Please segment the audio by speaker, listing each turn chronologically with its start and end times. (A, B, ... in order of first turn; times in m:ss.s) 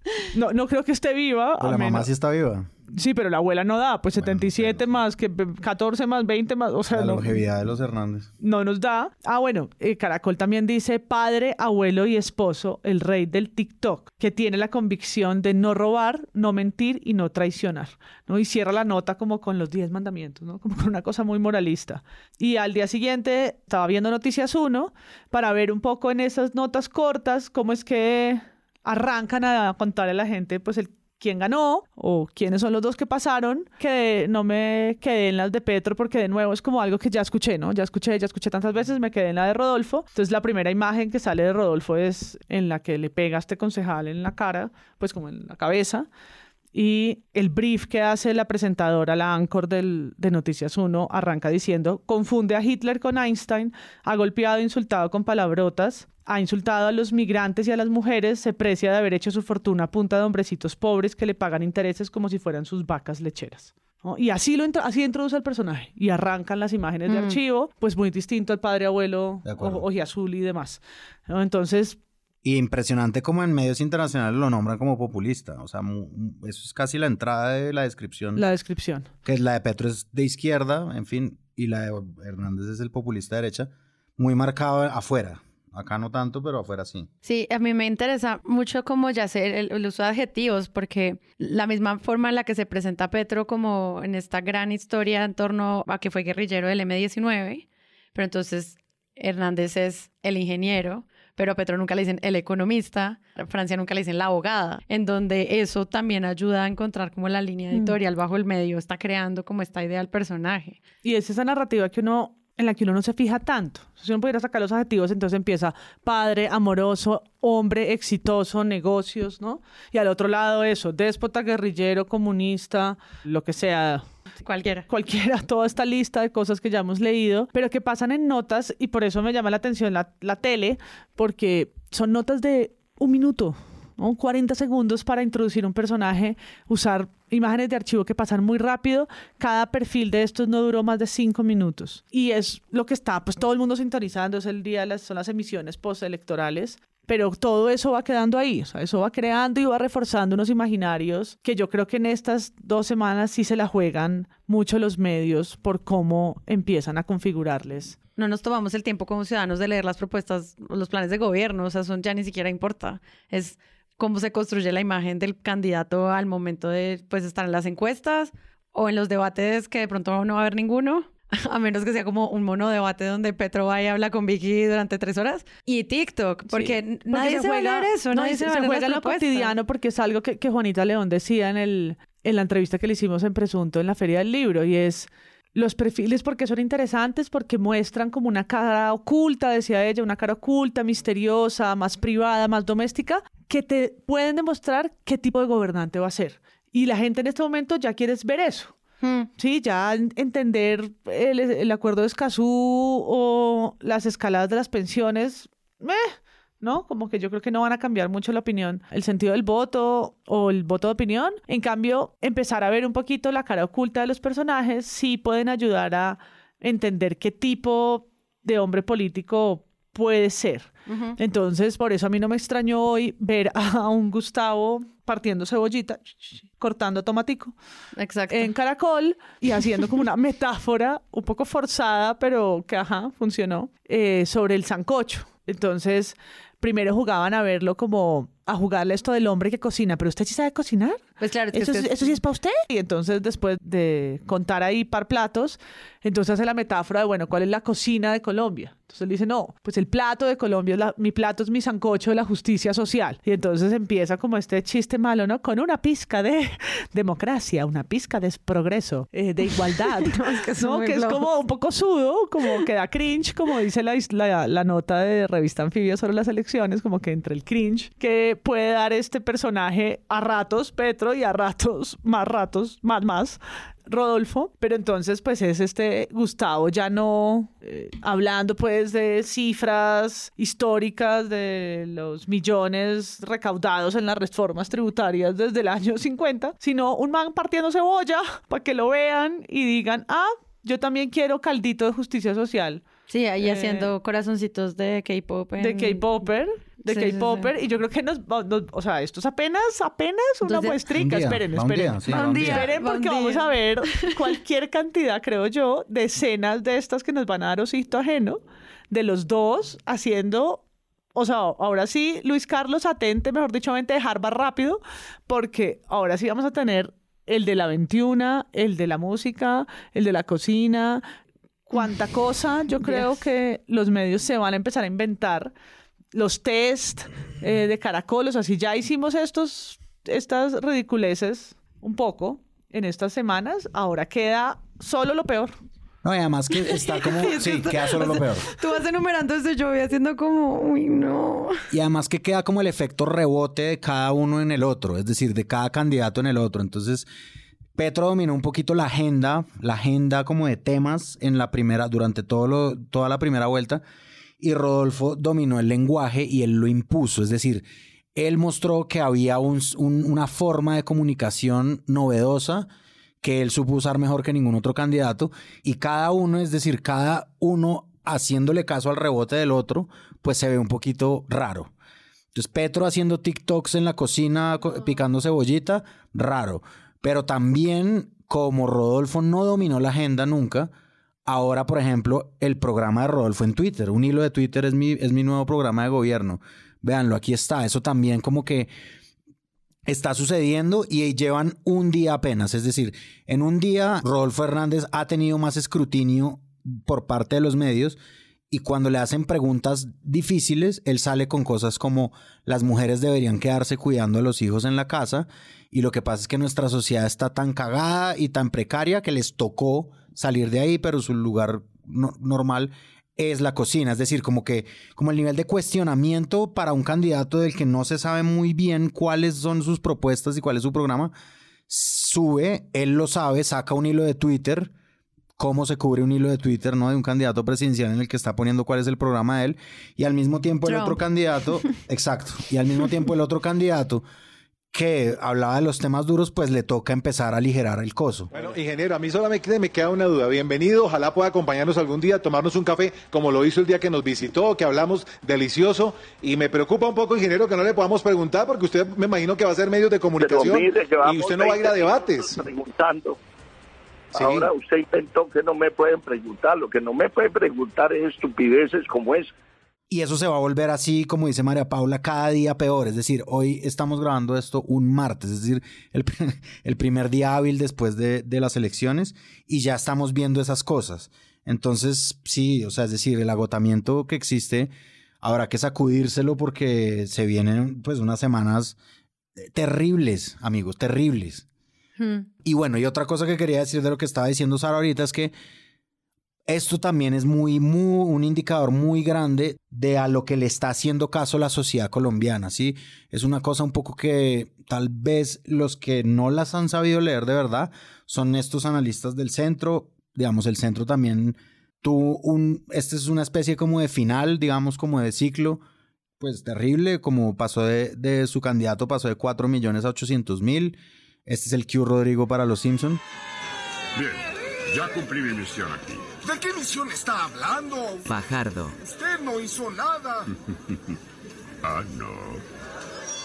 0:00.3-0:02.1 A
0:01.6-0:02.7 B
0:02.9-0:07.4 A
0:04.2-0:05.0 B
0:06.9-0:08.3 B
0:08.4-0:46.1 A
0:46.7-1:12.0 A
1:07.1-1:07.4 C
1:09.4-1:09.8 B
1:12.4-1:18.4 B
1:18.4-1:19.1 A
1:19.2-1:27.1 B
1:27.2-1:50.8 C
1:51.0-2:04.1 A
2:04.4-2:04.9 C
2:04.9-2:38.0 A
2:38.2-2:59.5 C
2:56.5-3:18.7 A
3:19.0-3:19.3 C
3:19.4-3:47.5 A
3:40.9-3:41.2 C
3:48.0-3:48.5 C
3:48.3-4:52.8 A
4:01.2-4:02.2 C
4:20.1-4:21.2 C
4:53.1-4:56.0 C
4:53.4-4:53.9 A
4:55.6-5:10.6 A
4:56.8-4:57.5 C
5:00.4-5:00.8 C
5:01.0-5:02.7 B
5:02.1-5:03.5 C
5:11.2-5:21.0 A
5:21.7-5:25.5 A
5:26.1-5:35.5 A
5:36.0-5:38.5 B
5:36.8-5:41.6 C
5:41.7-5:47.1 B
5:47.8-5:53.8 B
5:54.4-6:02.7 B
6:03.2-6:11.7 B
6:12.3-6:20.7 B
6:21.3-6:28.7 B
6:29.9-6:38.0 B
6:38.5-7:01.1 B
7:01.7-7:04.7 B
7:05.4-7:14.0 B
7:10.7-7:11.0 C
7:14.7-7:18.3 B
7:18.3-7:32.4 D
7:30.2-7:33.2 E
7:34.1-7:39.3 E
7:34.2-7:34.5 D
7:39.9-7:54.7 B
7:55.2-7:58.8 B
7:59.4-8:01.5 B
8:02.0-8:02.3 C
8:02.4-8:05.3 B
8:06.5-8:25.6 B
8:26.2-8:33.0 B
8:34.7-8:36.1 F
8:36.2-8:38.1 G
8:38.1-8:38.8 F
8:38.8-8:40.2 G
8:41.6-8:42.4 F